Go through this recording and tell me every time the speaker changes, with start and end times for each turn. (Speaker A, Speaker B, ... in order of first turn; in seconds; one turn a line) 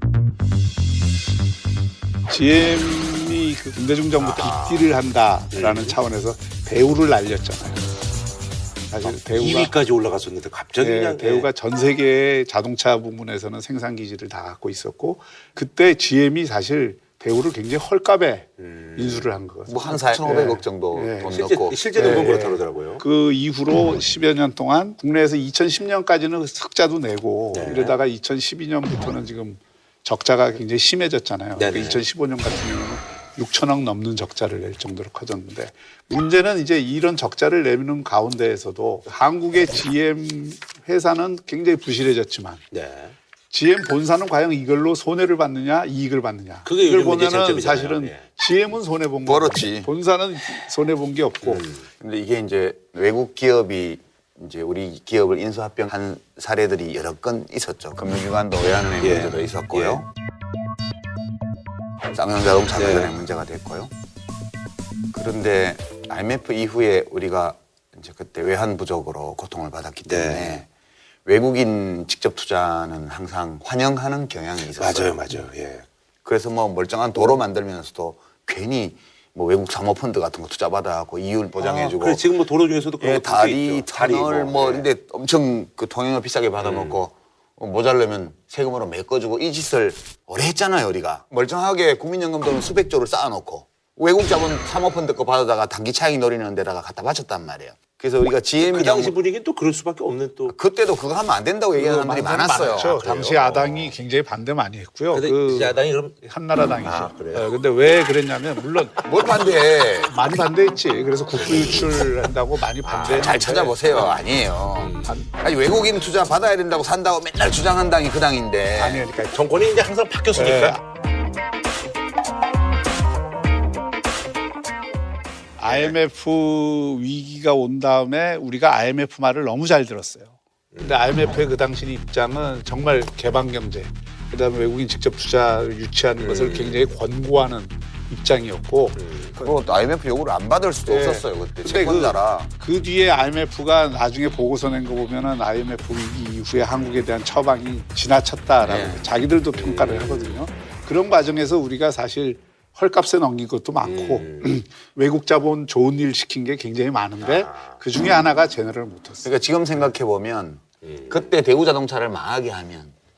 Speaker A: 2.3-7.9
Speaker B: 4.2-4.9
Speaker C: 5.5-6.0
Speaker A: 8.9-9.7
Speaker C: 9.0-11.5
Speaker A: 10.8-21.4
Speaker C: 18.6-19.3
Speaker B: 19.7-22.3
Speaker C: 21.3-23.0
Speaker A: 21.9-42.7
Speaker C: 27.5-27.9
Speaker C: 31.6-32.0
Speaker C: 42.7-43.1
Speaker A: 43.5-51.7
Speaker C: 46.6-48.2
Speaker B: 49.2-49.9
Speaker C: 51.4-51.8
Speaker B: 52.0-60.1
Speaker C: 59.0-60.0
Speaker B: 62.1-63.9
Speaker C: 62.7-63.1
Speaker B: 65.1-70.7
Speaker C: 70.1-70.6
Speaker B: 71.3-75.2
Speaker C: 74.8-75.9
Speaker B: 76.2-82.2
Speaker C: 81.6-84.9
Speaker B: 83.0-99.2
Speaker C: 86.6-87.0
Speaker C: 98.6-100.6
Speaker B: 100.5-103.0
Speaker A: 101.8-109.0
Speaker C: 101.8-103.9
Speaker C: 105.1-106.3
Speaker B: 106.8-107.1
Speaker C: 106.8-107.5
Speaker B: 109.0-110.1
Speaker A: 110.1-113.8
Speaker B: 111.4-111.9
Speaker C: 111.4-111.9
Speaker C: 112.8-114.1
Speaker B: 113.1-119.0
Speaker C: 114.7-115.1
Speaker A: 118.8-119.4
Speaker C: 119.3-120.8
Speaker A: 120.3-120.8
Speaker A: 125.6-139.6
Speaker C: 125.7-125.9
Speaker C: 130.7-131.1
Speaker C: 136.2-136.9
Speaker C: 139.0-139.3
Speaker B: 139.4-142.5
Speaker A: 140.9-159.3
Speaker B: 148.6-149.1
Speaker C: 149.5-150.4
Speaker C: 153.8-154.5
Speaker C: 157.2-157.8
Speaker B: 159.2-162.9
Speaker C: 160.8-161.3